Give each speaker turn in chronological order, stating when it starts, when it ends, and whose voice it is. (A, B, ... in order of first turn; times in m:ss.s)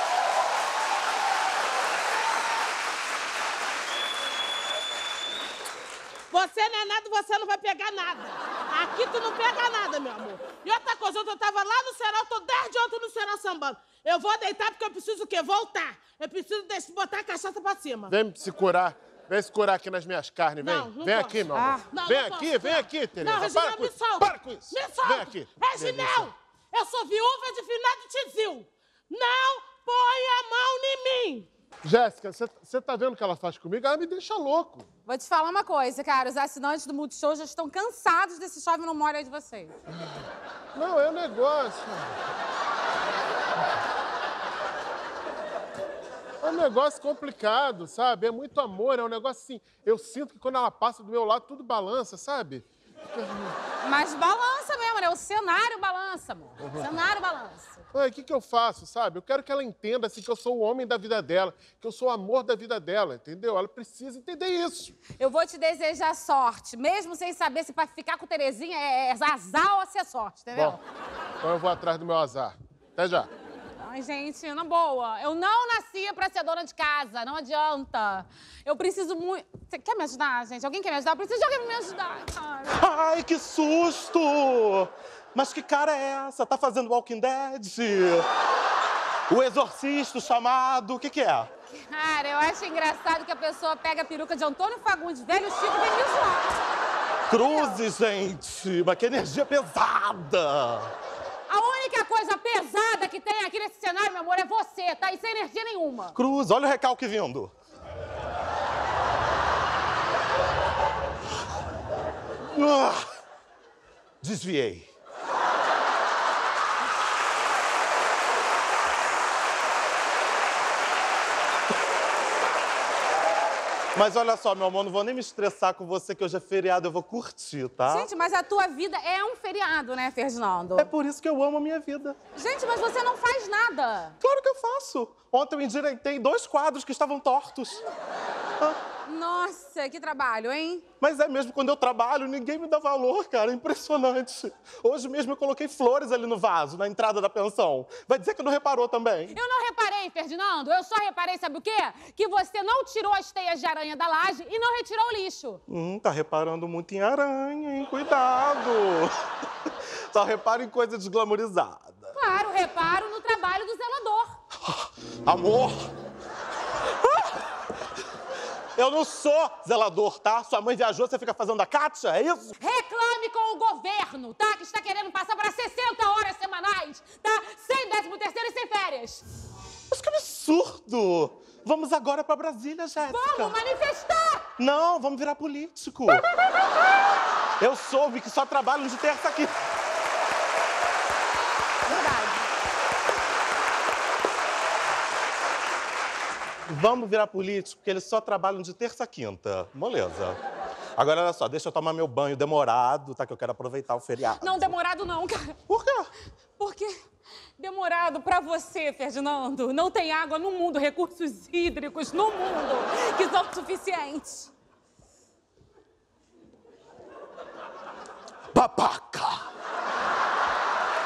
0:06.3-0:18.1 A
0:18.1-0:26.3 B
0:20.6-0:31.5 A
0:21.5-0:21.9 C
0:31.8-0:34.8 B
0:35.0-0:39.7 C
0:40.7-0:42.1 B
0:46.4-0:53.5 B
0:53.8-0:57.8 C
0:56.6-0:56.8 B
0:57.9-1:04.9 B
1:05.2-1:10.8 C
1:11.4-1:13.3 B
1:13.8-1:22.9 C
1:22.8-1:28.3 D
1:29.3-1:31.5 D
1:31.7-1:36.6 C
1:37.3-1:40.9 D
1:37.3-1:37.8 C
1:41.5-1:46.2 C
1:46.1-1:47.5 D
1:52.5-1:53.0 D
1:54.2-1:54.9 D
2:03.9-2:08.1 D
2:07.8-2:10.9 C
2:10.8-2:12.2 D
2:12.3-2:14.2 C
2:14.2-2:17.8 D
2:19.0-2:20.8 C
2:21.0-2:29.4 D
2:29.3-2:35.6 C
2:35.7-2:39.1 D
2:40.1-2:42.0 D
2:42.1-2:44.4 C
2:44.7-2:45.9 D
2:48.8-2:52.5 D
2:52.6-2:59.2 C
2:59.9-3:03.6 D
3:03.0-3:04.4 C
3:04.6-3:06.3 D
3:07.6-3:09.6 D
3:11.8-3:12.5 C
3:16.7-3:20.4 D
3:21.0-3:24.7 D
3:24.4-3:25.6 C
3:25.7-3:26.1 D
3:26.6-3:26.9 C
3:27.6-3:34.5 C
3:38.5-3:39.5 D